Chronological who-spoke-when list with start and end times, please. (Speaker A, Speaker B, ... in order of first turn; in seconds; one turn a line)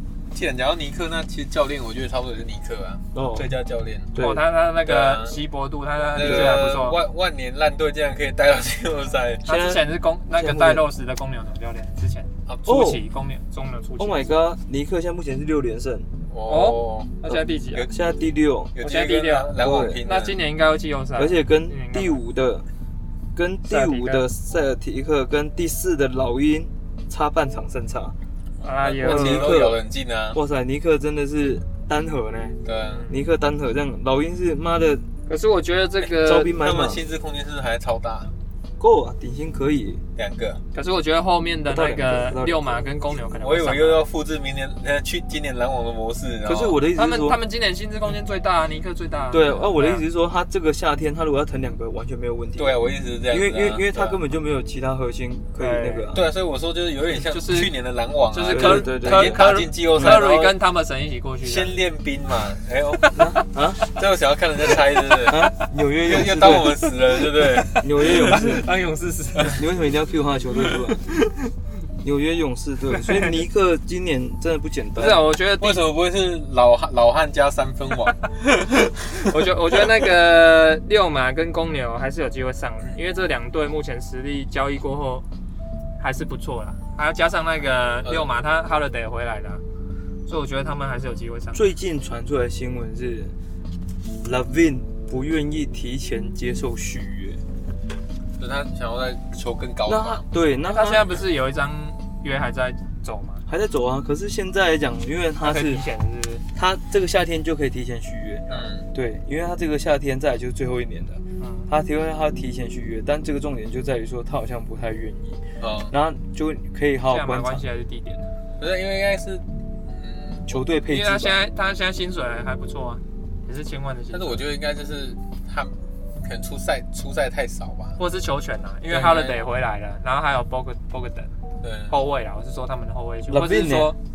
Speaker A: 0.3-4.1
Speaker B: 3.1-3.5
Speaker B: 4.1-4.4
Speaker C: 4.2-7.0
Speaker A: 4.8-5.4
Speaker A: 6.1-9.4
Speaker B: 6.2-6.6
Speaker C: 9.4-14.3
Speaker B: 9.4-10.8
Speaker A: 12.5-12.7
Speaker B: 12.6-13.0
Speaker B: 14.0-16.1
Speaker A: 16.3-17.2
Speaker C: 16.4-17.9
Speaker B: 17.3-18.8
Speaker A: 18.8-20.4
Speaker C: 18.8-22.2
Speaker B: 19.6-20.0
Speaker B: 21.1-22.6
Speaker B: 23.3-28.1
Speaker C: 23.7-24.3
Speaker C: 28.6-29.6
Speaker A: 28.6-30.4
Speaker B: 29.0-35.1
Speaker A: 32.6-33.0
Speaker C: 32.8-33.2
Speaker C: 35.3-36.6
Speaker B: 36.2-37.0
Speaker A: 36.5-38.3
Speaker B: 38.8-40.0
Speaker A: 40.1-40.6
Speaker C: 40.7-44.0
Speaker B: 41.7-42.9
Speaker A: 43.2-46.8
Speaker B: 46.4-47.4
Speaker C: 46.9-50.0
Speaker B: 49.3-56.3
Speaker A: 52.6-54.2
Speaker C: 55.6-56.1
Speaker A: 56.1-60.6
Speaker C: 57.3-57.7
Speaker C: 58.3-61.8
Speaker B: 58.5-59.4
Speaker B: 59.9-60.3
Speaker A: 61.4-63.1
Speaker C: 62.9-63.2
Speaker B: 63.1-63.9
Speaker A: 63.9-68.4
Speaker B: 65.2-66.8
Speaker C: 67.4-69.6
Speaker B: 67.7-68.7
Speaker B: 69.5-71.2
Speaker B: 72.0-75.2
Speaker C: 73.0-73.3
Speaker C: 75.0-75.8
Speaker A: 75.6-79.2
Speaker C: 79.2-85.2
Speaker C: 86.0-89.6
Speaker A: 88.0-88.3
Speaker C: 90.3-91.7
Speaker B: 91.5-93.3
Speaker B: 94.2-97.4
Speaker A: 98.4-100.2
Speaker B: 99.9-101.1
Speaker C: 100.7-103.4
Speaker B: 103.5-105.8
Speaker C: 105.4-106.4
Speaker B: 106.5-117.6
Speaker A: 108.5-108.9
Speaker C: 111.4-111.7
Speaker A: 115.6-115.9
Speaker C: 117.0-118.3
Speaker A: 118.6-120.6
Speaker B: 120.5-121.4
Speaker C: 120.9-124.4
Speaker A: 124.1-128.0
Speaker C: 128.0-131.4
Speaker A: 128.9-129.3
Speaker A: 131.6-132.0
Speaker C: 131.9-134.0
Speaker B: 133.3-133.9